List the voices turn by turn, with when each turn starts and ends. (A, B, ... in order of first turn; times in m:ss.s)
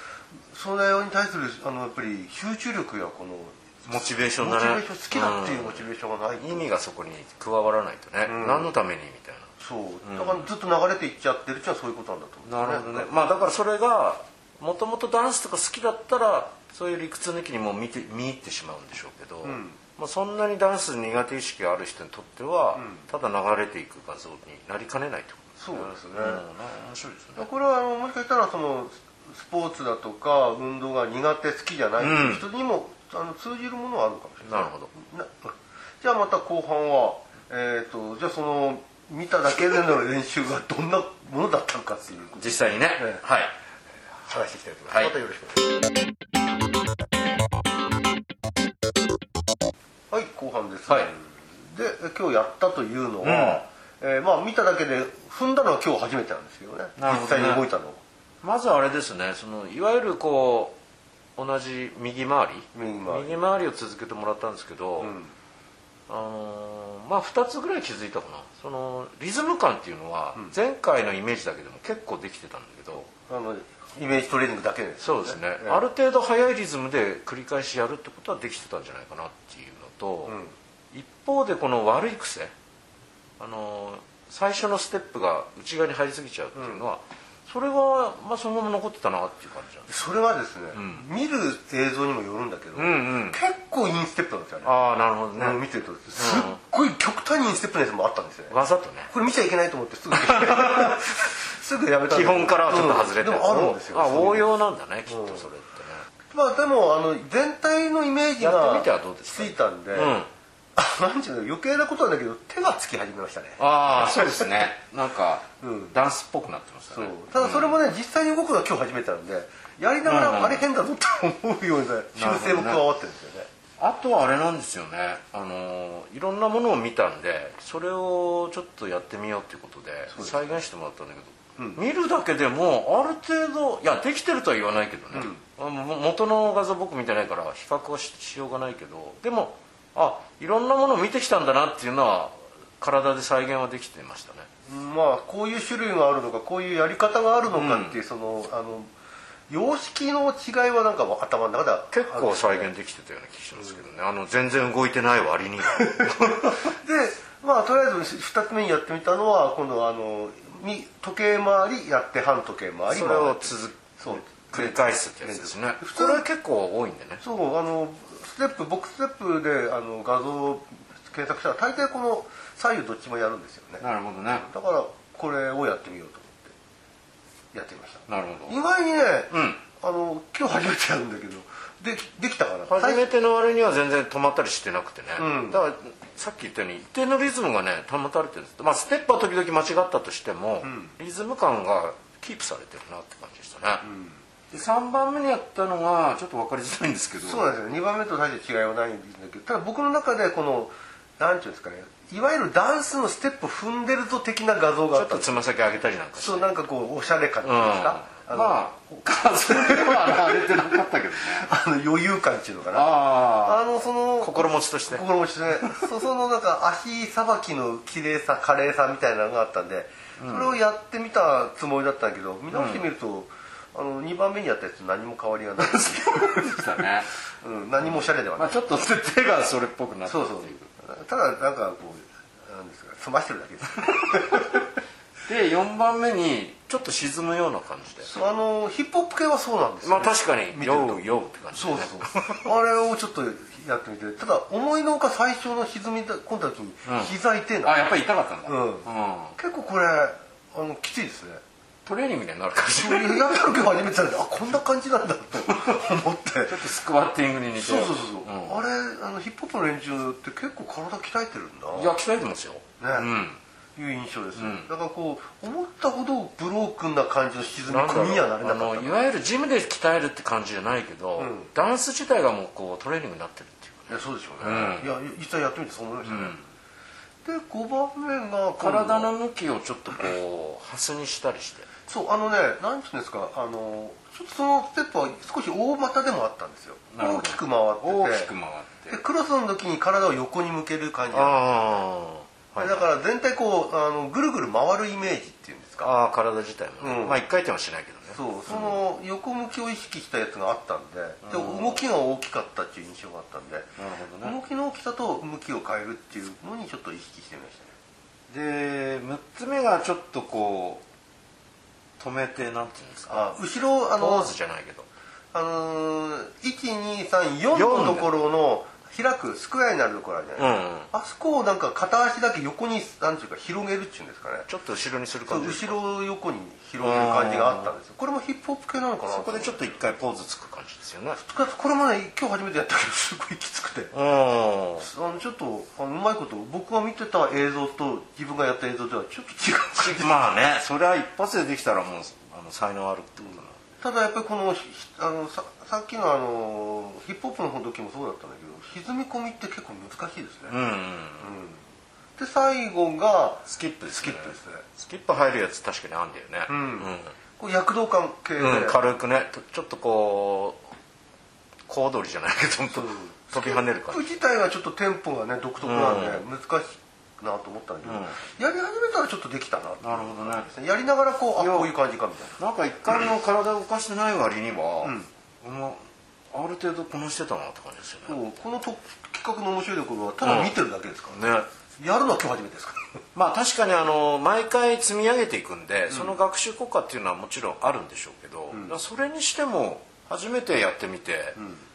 0:00.5-0:06.7 A
0:03.8-0:05.8 B
0:06.4-0:09.5 B
0:08.2-0:08.7 A
0:09.6-0:13.1 A
0:10.0-0:10.5 B
0:12.4-0:27.4 B
0:19.4-0:19.8 A
0:22.8-0:23.1 A
0:25.6-0:26.4 A
0:27.4-0:43.2 A
0:32.0-0:32.4 B
0:34.4-0:34.9 B
0:42.4-0:43.5 B
0:44.2-0:45.6 A
0:50.1-0:58.0 A
0:53.2-0:53.6 B
0:57.0-0:57.6 B
0:58.4-1:00.8 B
1:01.4-1:05.1 B
1:02.7-1:03.4 A
1:05.0-1:05.3 A
1:06.1-1:13.1 B
1:13.3-1:15.8 A
1:15.0-1:20.4 B
1:20.2-1:20.5 A
1:20.9-1:22.5 B
1:23.4-1:29.9 B
1:26.5-1:26.8 A
1:29.9-1:34.7 A
1:30.7-1:31.0 B
1:32.7-1:33.4 B
1:34.6-1:35.6 B
1:35.4-1:38.5 A
1:36.1-1:36.6 B
1:38.5-1:39.1 B
1:39.1-1:44.5 A
1:40.1-1:41.0 B
1:42.1-1:46.0 B
1:45.1-1:45.5 A
1:46.3-1:50.2 A
1:48.4-1:50.3 B
1:50.8-1:54.7 A
1:53.6-1:57.8 B
1:55.6-1:56.0 A
1:56.9-2:03.5 A
2:00.0-2:00.6 B
2:02.1-2:02.8 B
2:03.8-2:24.5 B
2:10.1-2:10.6 A
2:15.1-2:15.4 A
2:24.7-2:28.9 A
2:27.5-2:28.0 B
2:29.5-2:32.7 A
2:31.9-2:36.6 B
2:35.8-2:46.2 A
2:42.9-2:47.2 B
2:47.2-2:56.5 A
2:53.8-2:54.4 B
2:57.5-3:03.1 A
2:58.1-2:58.5 B
2:59.3-2:59.6 B
3:02.6-3:13.8 B
3:05.2-3:05.6 A
3:10.6-3:10.9 A
3:13.8-3:14.2 A
3:14.5-3:17.4 B
3:17.2-3:25.5 A
3:24.9-3:26.5 B
3:26.2-3:28.7 A
3:27.4-3:31.5 B
3:29.4-3:30.7 A
3:31.2-3:46.8 A
3:32.7-3:33.6 B
3:34.2-3:35.9 B
3:40.2-3:40.6 B
3:42.5-3:42.8 B
3:45.6-3:47.1 B
3:47.4-3:48.6 A
3:48.4-3:50.7 B
3:50.0-3:54.6 A
3:55.3-3:58.1 B
3:58.0-4:11.4 A
3:59.8-4:02.4 B
4:06.8-4:09.4 B
4:11.8-4:13.6 B
4:12.7-4:16.6 A
4:16.4-4:18.6 B
4:17.6-4:21.9 A
4:21.7-4:23.4 B
4:22.8-4:23.1 A
4:23.8-4:29.0 A
4:24.3-4:24.7 B
4:27.7-4:34.9 B
4:31.2-4:31.5 A
4:33.9-4:36.4 A
4:36.0-4:36.4 B
4:37.2-4:39.1 A
4:38.6-4:41.7 B
4:41.9-4:48.3 A
4:46.9-4:49.0 B
4:48.9-4:51.8 A
4:51.1-4:52.9 B
4:52.6-4:55.9 A
4:55.8-4:58.8 B
4:56.8-4:57.2 A
4:58.1-5:03.7 A
5:01.2-5:01.8 B
5:03.8-5:04.4 B
5:04.2-5:07.7 A
5:08.3-5:10.8 B
5:12.0-5:13.3 B
5:13.1-5:14.3 A
5:14.0-5:14.9 B
5:15.3-5:24.5 A
5:17.5-5:18.1 B
5:20.4-5:20.9 B
5:24.5-5:25.8 B
5:25.3-5:29.8 A
5:26.8-5:27.7 B
5:29.1-5:31.2 B
5:31.2-5:33.9 A
5:33.9-5:34.9 B
5:34.8-5:40.2 A
5:39.8-5:43.6 B
5:43.8-5:50.6 A
5:50.5-5:51.3 B
5:51.2-5:51.6 A
5:52.2-5:54.6 A
5:53.4-5:57.1 B
5:56.5-5:58.8 A
5:58.4-6:00.6 B
6:01.7-6:04.0 B
6:02.7-6:12.4 A
6:05.6-6:06.2 B
6:07.8-6:08.1 B
6:09.8-6:10.5 B
6:11.4-6:11.7 B
6:12.4-6:15.8 B
6:14.8-6:15.1 A
6:16.3-6:18.2 B
6:18.0-6:21.2 A
6:20.2-6:20.5 B
6:21.1-6:21.5 B
6:21.8-6:22.8 A
6:23.1-6:31.4 B
6:25.9-6:26.2 A
6:28.5-6:28.8 A
6:31.4-6:31.6 A